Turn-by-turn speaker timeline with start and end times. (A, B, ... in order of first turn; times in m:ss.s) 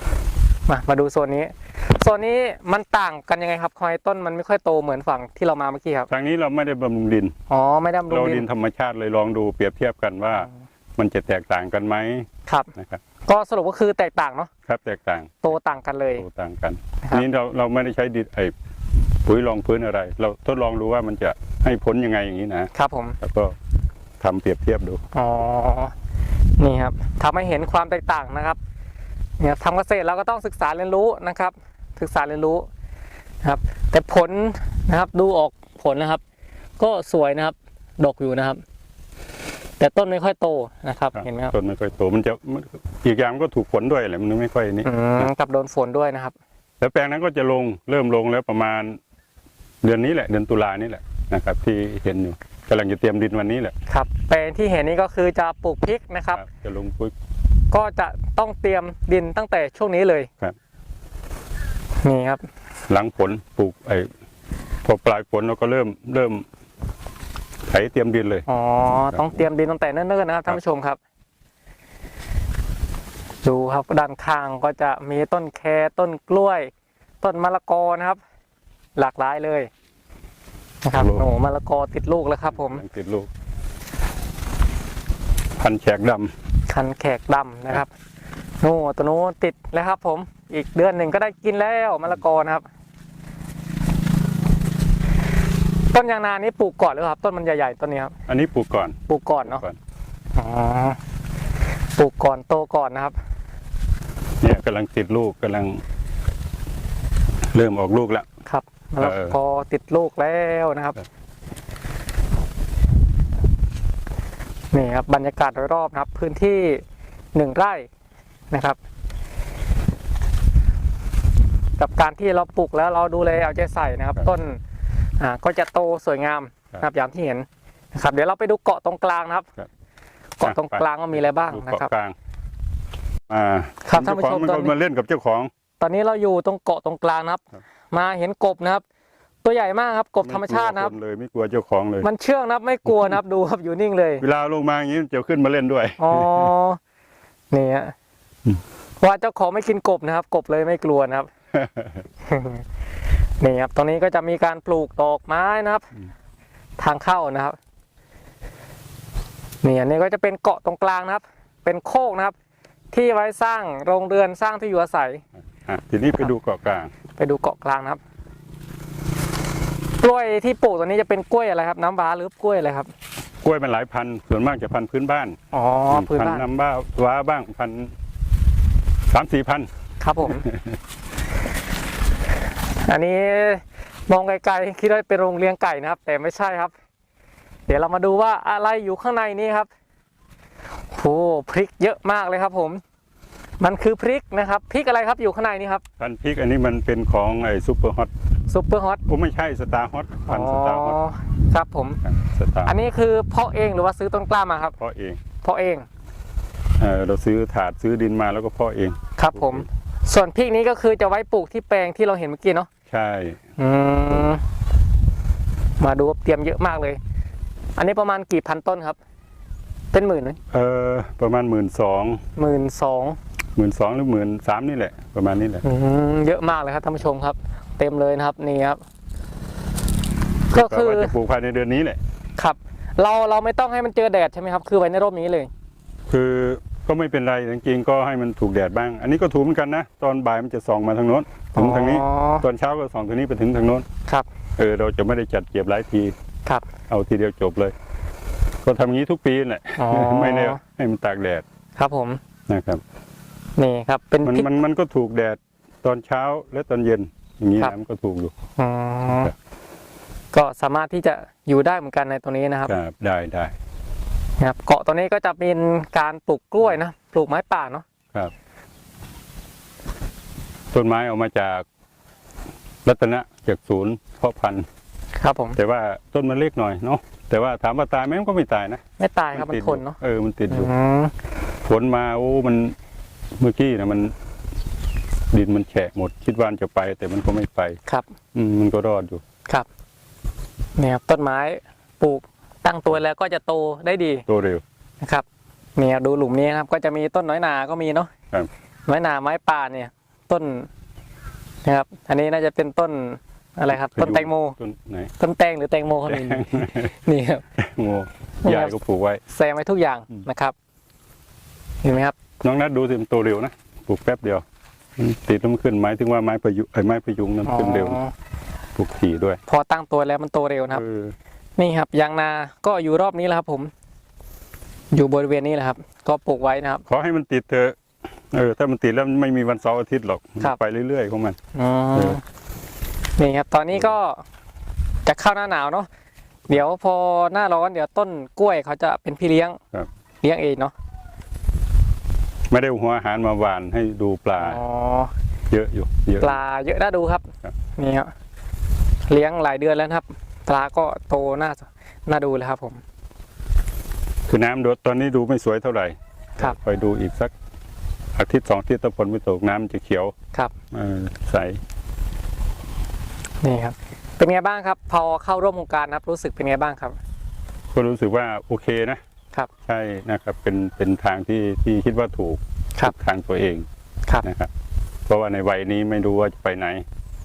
0:00.7-0:06.1 A
0:06.1-0:07.3 B
0:07.5-0:08.4 A
0:08.1-0:13.0 B
0:12.4-0:12.7 A
0:13.2-0:14.5 A
0:14.6-0:15.5 B
0:15.4-0:16.2 A
0:16.2-0:18.5 B
0:19.2-0:23.5 B
0:22.7-0:23.2 A
0:24.2-0:25.0 B
0:25.1-0:25.9 A
0:26.6-0:28.6 A
0:29.4-0:32.7 A
0:33.4-0:36.2 A
0:36.8-0:38.6 A
0:39.8-0:41.5 A
0:41.1-0:45.3 B
0:44.8-0:46.3 A
0:46.8-0:49.0 B
0:49.8-0:53.7 B
0:53.9-0:56.4 A
0:56.4-0:57.1 B
0:57.7-1:00.3 A
1:02.0-1:02.4 A
1:02.9-1:04.1 B
1:04.8-1:06.4 B
1:07.7-1:08.4 B
1:08.5-1:11.0 A
1:13.4-1:18.2 A
1:19.0-1:19.7 A
1:20.8-1:22.8 A
1:20.9-1:21.3 B
1:22.5-1:23.3 B
1:25.6-1:26.3 B
1:26.7-1:27.9 A
1:28.6-1:32.6 A
1:35.9-1:38.1 A
1:38.3-1:39.8 B
1:39.1-1:39.6 A
1:40.3-1:41.0 A
1:42.0-1:43.1 A
1:44.4-1:45.8 B
1:47.5-1:48.2 B
1:48.4-1:51.0 A
1:49.0-1:49.4 B
1:54.7-1:56.8 A
1:57.3-1:57.9 A
1:58.5-1:58.8 A
2:01.8-2:04.6 A
2:05.2-2:09.5 A
2:10.4-2:11.9 A
2:10.4-2:12.2 B
2:13.3-2:15.5 B
2:13.8-2:14.7 A
2:15.8-2:18.8 A
2:19.4-2:20.9 A
2:20.2-2:22.1 B
2:22.0-2:24.2 A
2:22.8-2:23.1 B
2:24.2-2:26.5 B
2:26.0-2:26.8 A
2:27.5-2:27.9 A
2:29.0-2:31.3 A
2:31.5-2:32.0 B
2:32.2-2:32.6 A
2:33.4-2:35.9 A
2:36.8-2:37.6 A
2:39.6-2:42.3 A
2:42.9-2:45.2 A
2:45.6-2:46.9 B
2:47.2-2:48.0 A
2:50.0-2:52.9 A
2:53.4-2:55.4 B
2:55.5-2:56.4 A
2:55.9-2:57.9 B
2:59.1-2:59.7 B
3:00.0-3:00.4 A
3:00.2-3:00.8 B
3:02.7-3:06.7 A
3:07.7-3:09.7 A
3:10.9-3:12.8 A
3:13.6-3:15.8 A
3:16.0-3:18.1 B
3:18.5-3:19.0 A
3:19.0-3:21.0 B
3:20.3-3:22.0 A
3:22.0-3:22.8 B
3:22.6-3:24.8 A
3:24.8-3:25.2 B
3:25.4-3:25.8 A
3:26.8-3:29.6 B
3:29.2-3:32.7 A
3:32.9-3:33.4 B
3:33.6-3:34.4 A
3:35.8-3:37.0 A
3:37.8-3:39.0 A
3:39.9-3:40.4 A
3:40.5-3:42.2 B
3:42.4-3:43.2 A
3:43.6-3:45.6 B
3:45.6-3:48.8 A
3:50.5-3:51.1 A
3:50.5-3:52.0 B
3:52.4-3:55.5 A
3:56.1-4:03.8 B
4:01.6-4:02.4 A
4:04.6-4:06.1 B
4:06.9-4:07.7 B
4:08.6-4:11.4 B
4:09.8-4:10.6 A
4:11.8-4:12.2 A
4:12.5-4:12.8 B
4:13.6-4:14.5 A
4:14.2-4:18.3 B
4:18.6-4:19.3 A
4:19.1-4:19.3 B
4:20.3-4:22.7 A
4:22.7-4:23.5 B
4:24.4-4:27.8 A
4:30.7-4:31.6 B
4:32.8-4:34.6 B
4:35.2-4:35.6 A
4:35.6-4:38.8 B
4:39.0-4:40.0 A
4:39.3-4:40.7 B
4:40.5-4:41.1 A
4:41.6-4:42.7 B
4:43.4-4:44.1 B
4:45.3-4:47.8 B
4:48.3-4:49.2 B
4:50.8-4:54.2 A
4:54.3-4:54.6 B
4:55.8-4:58.1 A
4:58.9-5:00.7 A
5:01.6-5:04.6 A
5:03.7-5:05.1 B
5:05.2-5:07.4 A
5:06.0-5:06.9 B
5:07.6-5:09.2 B
5:08.4-5:10.5 A
5:11.8-5:12.2 A
5:12.4-5:14.4 B
5:15.0-5:18.0 B
5:17.4-5:18.1 A
5:18.8-5:19.4 B
5:19.5-5:20.8 A
5:20.7-5:21.1 B
5:21.6-5:23.7 A
5:24.9-5:26.8 A
5:26.9-5:27.8 B
5:28.3-5:31.4 B
5:31.5-5:32.2 A
5:31.9-5:32.2 B
5:33.2-5:34.2 A
5:35.0-5:35.9 A
5:36.5-5:39.6 A
5:40.2-5:40.7 A
5:42.5-5:44.6 B
5:44.4-5:45.1 A
5:45.5-5:46.4 B
5:46.2-5:48.1 A
5:49.1-5:52.8 A
5:54.3-5:57.3 B
5:58.2-6:00.1 B
6:00.7-6:01.6 B
6:03.4-6:07.0 A
6:07.7-6:09.0 B
6:09.7-6:13.7 B
6:14.2-6:14.5 B
6:15.1-6:16.8 B